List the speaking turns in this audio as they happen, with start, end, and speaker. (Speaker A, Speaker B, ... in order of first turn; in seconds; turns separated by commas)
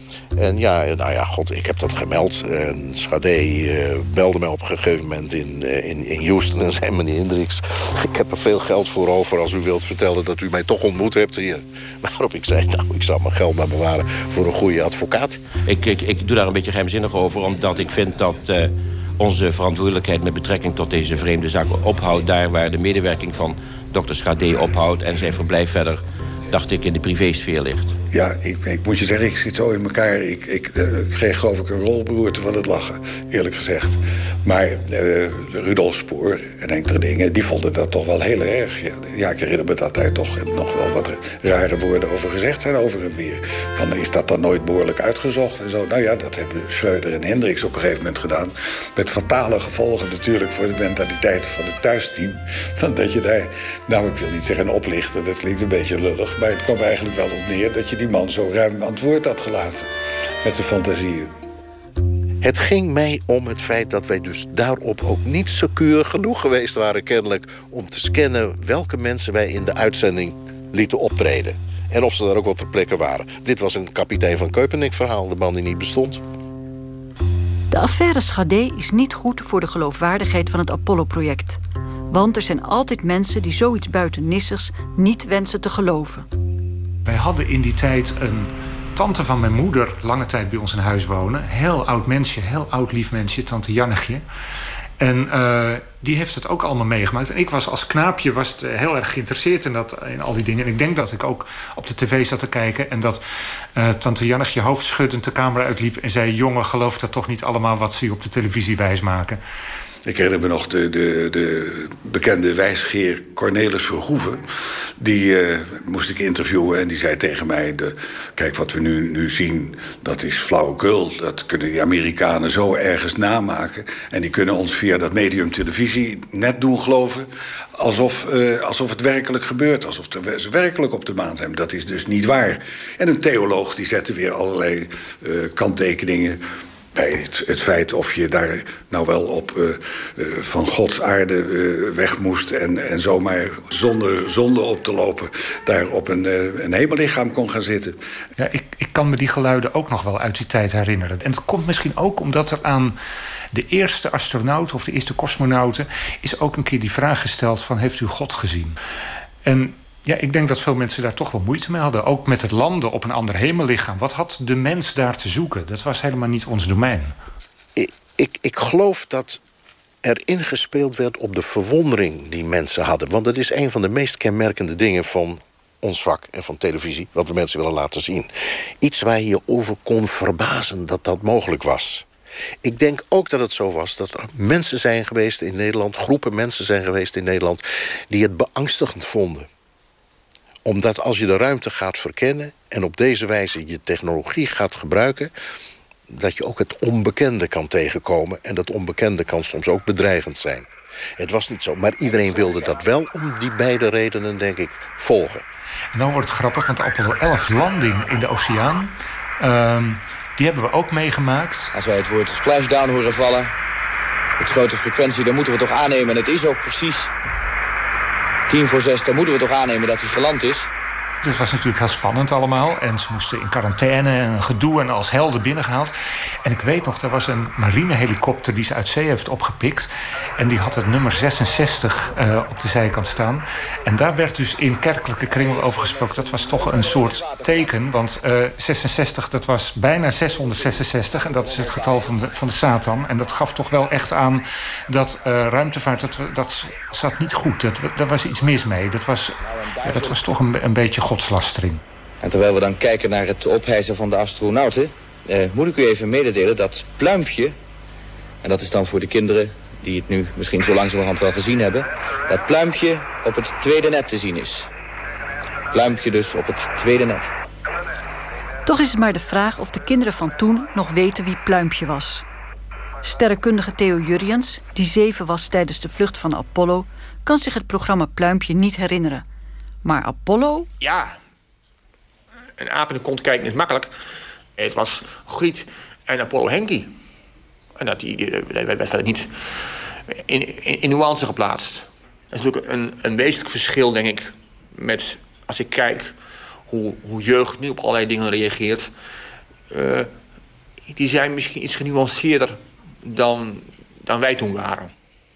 Speaker A: 0.3-15.4, Speaker B: 15.6-27.9, Speaker C: 28.1-59.9, Speaker C: 60.4-61.3, Speaker A: 62.4-76.2, Speaker D: 77.7-81.6, Speaker D: 82.1-86.2, Speaker E: 87.0-94.2, Speaker E: 95.0-103.2, Speaker E: 103.7-109.4, Speaker C: 110.0-114.4, Speaker C: 115.0-136.4, Speaker C: 136.9-148.0, Speaker E: 148.4-152.9, Speaker E: 153.5-158.8, Speaker E: 159.4-167.2, Speaker A: 167.8-169.4, Speaker A: 170.0-178.3, Speaker A: 178.8-182.0, Speaker A: 182.6-189.5, Speaker A: 190.6-195.3, Speaker A: 196.1-205.4, Speaker E: 205.9-211.7, Speaker F: 211.7-213.5, Speaker F: 214.4-217.1, Speaker F: 218.5-220.7, Speaker E: 221.2-251.8, Speaker F: 252.2-257.5, Speaker F: 258.4-264.7, Speaker F: 265.7-267.3, Speaker D: 268.6-272.2, Speaker D: 273.0-279.2, Speaker D: 279.8-280.7, Speaker G: 280.8-281.2, Speaker G: 282.6-283.9, Speaker G: 284.6-286.9, Speaker G: 287.8-289.3, Speaker G: 290.1-296.1, Speaker G: 296.7-298.9, Speaker G: 299.7-300.1, Speaker G: 300.9-304.9